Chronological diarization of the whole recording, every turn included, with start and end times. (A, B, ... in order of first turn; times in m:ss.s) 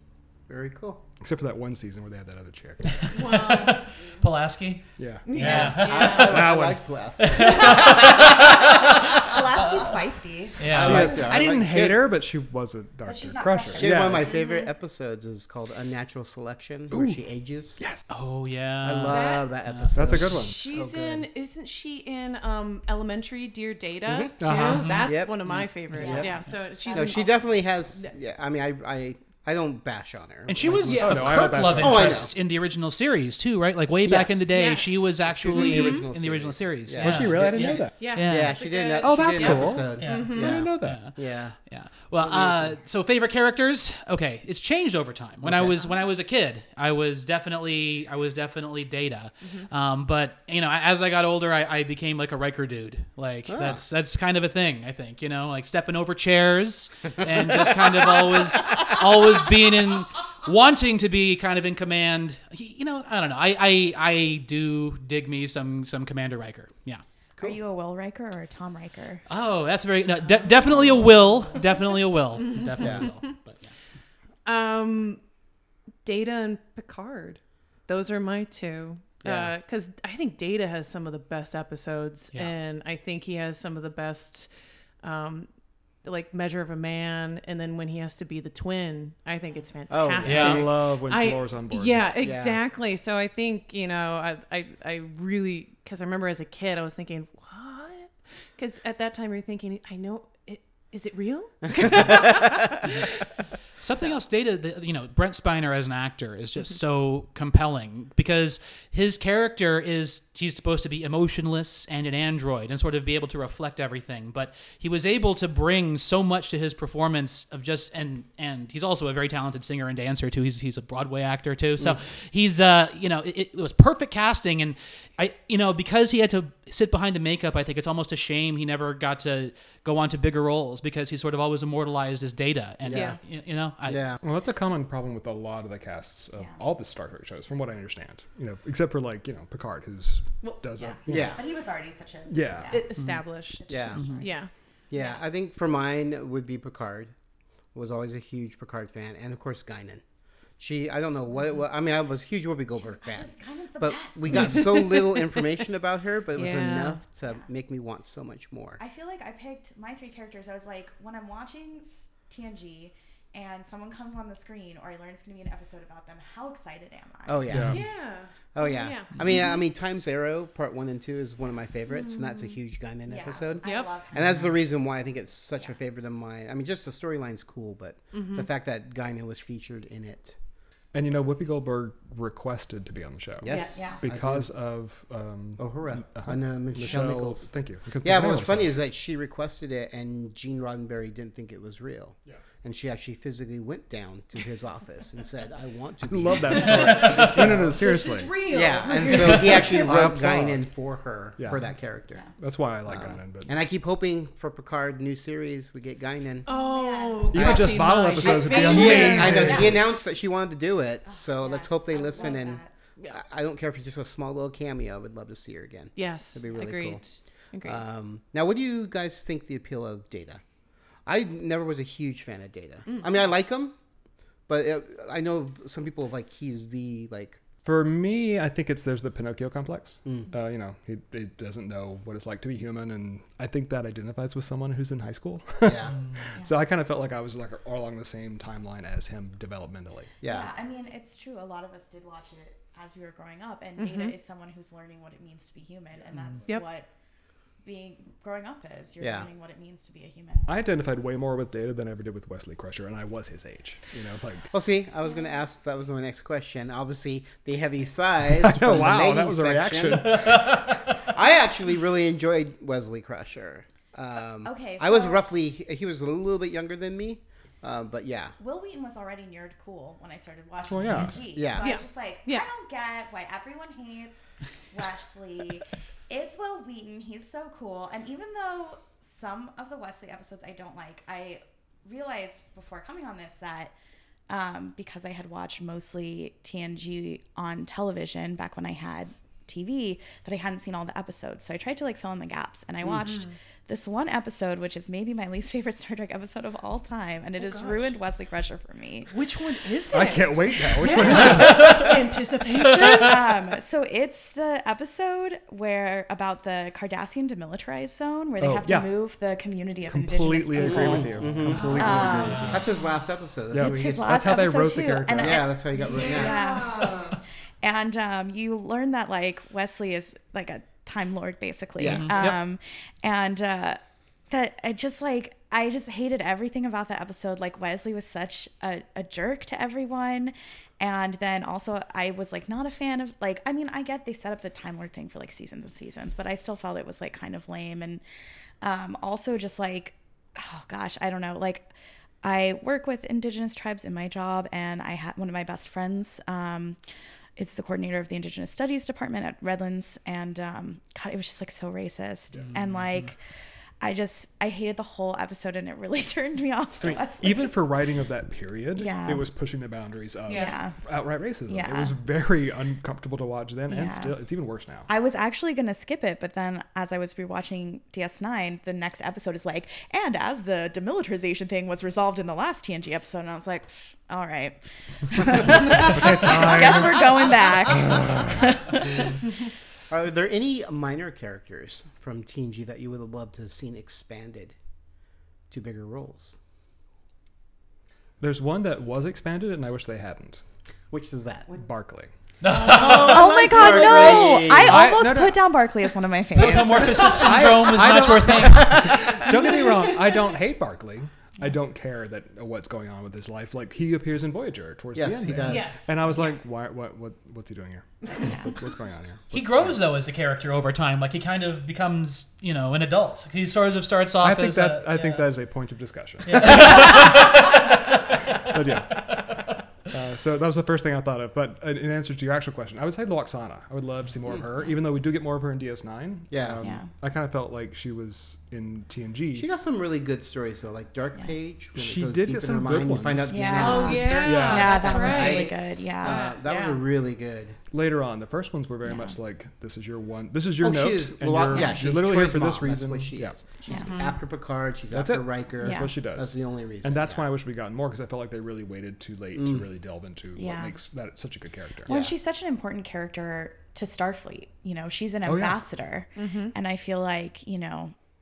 0:00.5-0:01.0 A
0:01.2-0:03.2 B
0:02.9-0:06.4 C
0:03.1-0:04.1 D
0:05.0-0:06.8 B
0:05.3-0:06.4 D
0:05.8-0:08.6 A
0:07.2-0:09.4 C
0:09.2-0:10.6 E
0:10.6-0:11.2 C
0:10.7-0:12.0 A
0:10.7-0:14.3 B
0:13.0-0:14.2 E
0:13.8-0:17.8 A
0:14.2-0:14.7 D
0:16.9-0:17.2 B
0:17.8-0:18.1 B
0:18.1-0:20.0 C
0:18.8-0:21.3 A
0:19.1-0:19.5 D
0:19.9-0:20.6 B
0:20.3-0:28.1 D
0:24.1-0:24.4 A
0:24.4-0:25.0 B
0:24.5-0:26.4 C
0:25.0-0:25.4 A
0:25.9-0:26.4 A
0:26.0-0:27.2 E
0:26.9-0:32.3 A
0:30.5-0:38.6 C
0:30.9-0:32.3 B
0:34.0-0:34.5 A
0:34.5-0:36.1 D
0:35.2-0:41.6 A
0:37.0-0:38.1 B
0:37.0-0:40.6 D
0:39.0-0:41.1 B
0:40.0-1:07.0 C
0:42.2-0:42.8 A
0:45.4-0:45.8 A
0:53.5-0:53.8 A
1:07.4-1:09.2 E
1:09.3-1:13.7 C
1:12.5-1:13.1 D
1:12.8-1:13.1 A
1:14.4-1:15.2 D
1:16.0-1:24.5 D
1:19.2-1:19.5 A
1:25.0-1:25.5 D
1:26.0-1:43.1 D
1:29.9-1:30.7 A
1:30.2-1:30.6 C
1:30.3-1:32.2 B
1:32.2-1:32.6 A
1:41.7-1:42.8 A
1:43.8-2:14.0 C
2:12.8-2:13.2 A
2:12.9-2:13.2 D
2:13.9-2:14.2 A
2:14.2-2:21.4 B
2:20.8-2:22.9 E
2:21.1-2:21.4 A
2:22.3-2:22.8 B
2:22.7-2:24.5 D
2:23.0-2:23.2 C
2:23.6-2:24.3 E
2:23.7-2:24.1 A
2:24.0-2:24.2 C
2:24.9-2:27.1 A
2:27.7-2:30.0 A
2:30.6-2:38.8 A
2:32.8-2:34.5 E
2:34.4-2:35.3 D
2:36.4-2:37.0 D
2:38.8-2:47.6 E
2:47.3-2:47.9 A
2:47.5-2:47.8 B
2:47.7-2:49.6 D
2:48.5-3:00.4 A
2:52.0-2:52.5 D
2:53.1-2:54.4 E
2:53.6-2:53.9 D
2:58.1-2:58.5 D
3:00.9-3:08.7 B
3:03.4-3:04.5 A
3:03.5-3:04.0 E
3:05.6-3:07.5 A
3:08.0-3:17.7 A
3:16.1-3:18.4 B
3:16.5-3:20.0 D
3:16.8-3:17.3 C
3:18.5-3:22.2 A
3:19.2-3:20.6 B
3:21.4-3:21.7 B
3:22.3-3:23.5 B
3:22.9-3:26.5 A
3:26.5-3:29.8 D
3:26.5-3:27.5 E
3:27.3-3:29.9 B
3:27.3-3:37.0 A
3:29.3-3:29.9 E
3:31.0-3:32.7 E
3:36.0-3:37.8 D
3:37.6-3:40.4 A
3:41.1-3:43.8 A
3:44.5-3:47.4 A
3:47.6-4:00.1 B
3:55.6-3:56.0 A
4:00.2-4:00.5 A
4:00.3-4:06.9 E
4:03.8-4:04.1 D
4:07.6-4:10.5 E
4:09.0-4:09.3 A
4:10.5-4:14.5 B
4:14.5-4:28.4 A
4:18.3-4:20.7 B
4:24.4-4:25.3 E
4:28.4-4:43.7 E
4:30.7-4:31.3 B
4:31.4-4:31.7 A
4:31.6-4:32.5 D
4:44.3-4:59.1 E
4:57.4-4:58.0 D
4:59.1-5:03.3 D
4:59.9-5:02.1 B
5:02.8-5:12.5 E
5:08.4-5:09.0 B
5:09.9-5:12.7 B
5:10.6-5:14.2 A
5:11.6-5:11.9 D
5:12.3-5:12.6 C
5:13.5-5:15.5 B
5:13.6-5:17.0 E
5:15.2-5:16.4 A
5:15.9-5:17.2 D
5:17.6-5:23.8 E
5:21.8-5:22.3 A
5:21.9-5:22.4 C
5:24.3-5:38.0 E
5:38.6-5:41.7 E
5:42.2-5:46.8 E
5:47.4-5:53.2 E
5:52.4-5:53.0 C
5:53.8-5:57.6 E
5:56.8-6:04.9 B
5:58.8-5:59.3 E
6:00.3-6:00.6 D
6:00.3-6:00.8 E
6:01.5-6:02.0 E
6:03.7-6:04.2 E
6:04.9-6:19.0 E
6:15.3-6:18.6 B
6:19.9-6:24.6 A
6:25.5-6:26.4 A
6:28.2-6:30.4 B
6:30.9-6:31.5 A
6:31.5-6:32.1 B
6:32.4-6:33.4 C
6:32.7-6:34.9 A
6:32.8-6:37.4 E
6:33.6-6:35.5 B
6:36.3-6:39.2 C
6:37.1-6:49.8 B
6:38.4-6:39.0 A
6:39.2-6:40.3 D
6:45.0-6:45.8 A
6:45.5-6:46.1 D
6:48.2-6:48.5 E
6:49.3-6:55.3 C
6:54.2-6:57.3 B
6:56.3-6:59.5 C
6:58.3-6:59.2 B
6:59.9-7:09.5 B
7:06.3-7:06.7 A
7:06.6-7:06.9 E
7:09.4-7:17.6 A
7:11.8-7:15.2 B
7:13.3-7:16.3 E
7:13.6-7:16.8 D
7:17.7-7:23.5 B
7:18.8-7:19.2 E
7:20.6-7:27.2 A
7:23.7-7:23.9 E
7:23.7-7:24.1 D
7:24.9-7:31.9 B
7:25.6-7:25.9 E
7:29.4-7:29.6 A
7:30.4-7:30.8 E
7:31.9-7:32.1 A
7:31.9-7:37.9 E
7:35.2-7:35.6 B
7:36.2-7:36.6 D